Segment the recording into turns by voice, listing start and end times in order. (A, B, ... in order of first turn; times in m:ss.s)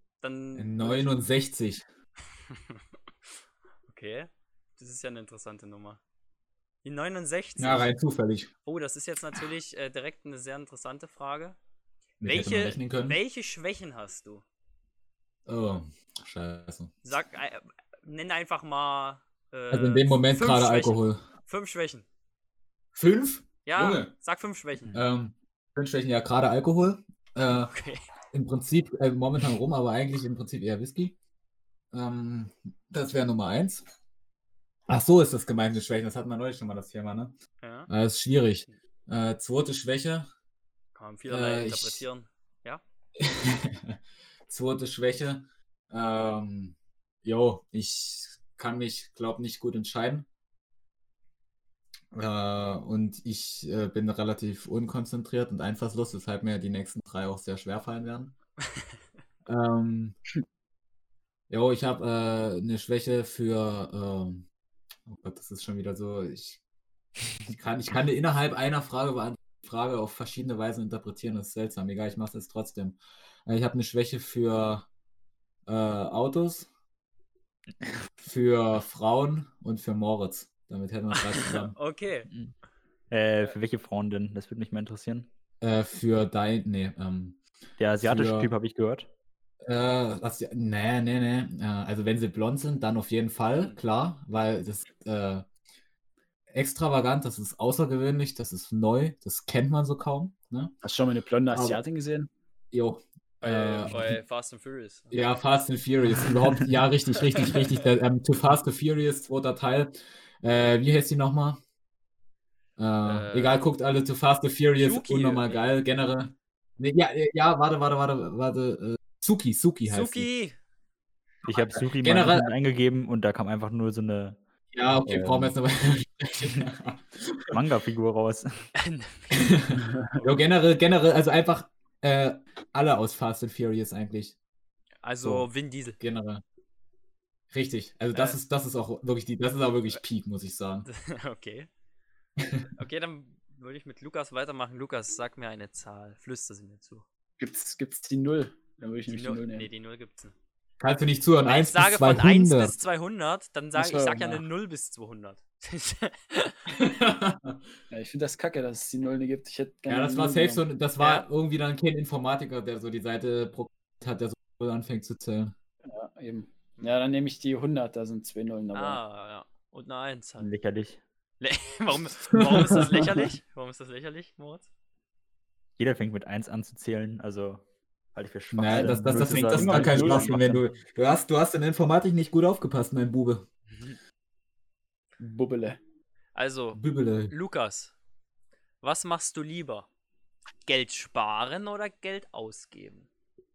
0:00.2-0:01.1 A
0:00.6-0:01.8 B
0:02.5-0:02.8 A
0:03.9-0:06.0 A
0:06.8-0:07.9 A
0:07.6-0:08.5 B
0:08.7-0:11.6 A
0:12.2-0:13.2 B
0:12.2-0:14.4 A
0:15.5-0:16.9 B
0:17.0-0:22.0 A
0:19.7-0:21.2 B
0:23.0-0:24.1 B
0:23.7-0:25.0 A
0:24.9-0:27.7 B
0:27.7-0:28.1 A
0:28.3-0:31.2 B
0:31.9-0:33.8 B
0:34.9-0:37.3 B
0:37.6-0:37.9 A
0:37.9-0:40.3 B
0:41.0-0:42.8 A
0:41.3-0:42.0 B
0:43.2-0:50.3 B
0:52.1-0:58.4 B
0:59.5-1:00.2 B
1:01.5-1:04.5 B
1:05.1-1:06.6 B
1:07.4-1:14.9 B
1:15.7-1:16.7 B
1:18.2-1:21.8 B
1:21.2-1:22.3 A
1:23.1-1:25.3 C
1:25.6-1:27.4 B
1:27.8-1:29.1 C
1:28.0-1:28.5 B
1:29.6-1:35.5 B
1:36.5-1:40.7 B
1:40.8-1:42.3 D
1:41.5-1:41.8 B
1:42.7-1:44.2 B
1:43.4-1:45.2 A
1:45.1-1:51.6 B
1:47.4-1:47.8 A
1:52.8-2:00.3 B
1:53.0-1:53.6 A
1:54.8-1:55.7 A
1:59.9-2:00.6 A
2:01.4-2:04.4 C
2:01.5-2:01.8 A
2:02.0-2:02.5 B
2:04.7-2:07.5 B
2:05.0-2:05.6 C
2:07.5-2:08.7 C
2:08.8-2:09.6 A
2:09.3-2:14.4 B
2:09.8-2:10.2 D
2:15.0-2:16.0 A
2:16.0-2:16.4 B
2:17.5-2:20.9 B
2:20.9-2:21.7 A
2:22.4-2:22.7 B
2:22.8-2:27.0 A
2:27.4-2:29.7 D
2:29.1-2:30.3 A
2:30.8-2:32.8 B
2:31.5-2:36.6 A
2:33.8-2:34.4 D
2:36.7-2:37.6 B
2:37.9-2:40.6 D
2:39.9-2:45.6 B
2:41.0-2:41.3 A
2:45.9-2:49.0 D
2:48.7-2:50.5 A
2:50.4-2:51.0 C
2:51.4-2:54.7 A
2:52.3-2:53.3 D
2:55.8-2:57.6 C
2:58.1-3:00.6 C
2:58.5-3:03.5 B
2:58.7-3:00.4 D
3:05.2-3:05.8 D
3:06.4-3:07.9 A
3:06.8-3:07.3 B
3:08.8-3:09.9 A
3:10.7-3:13.1 A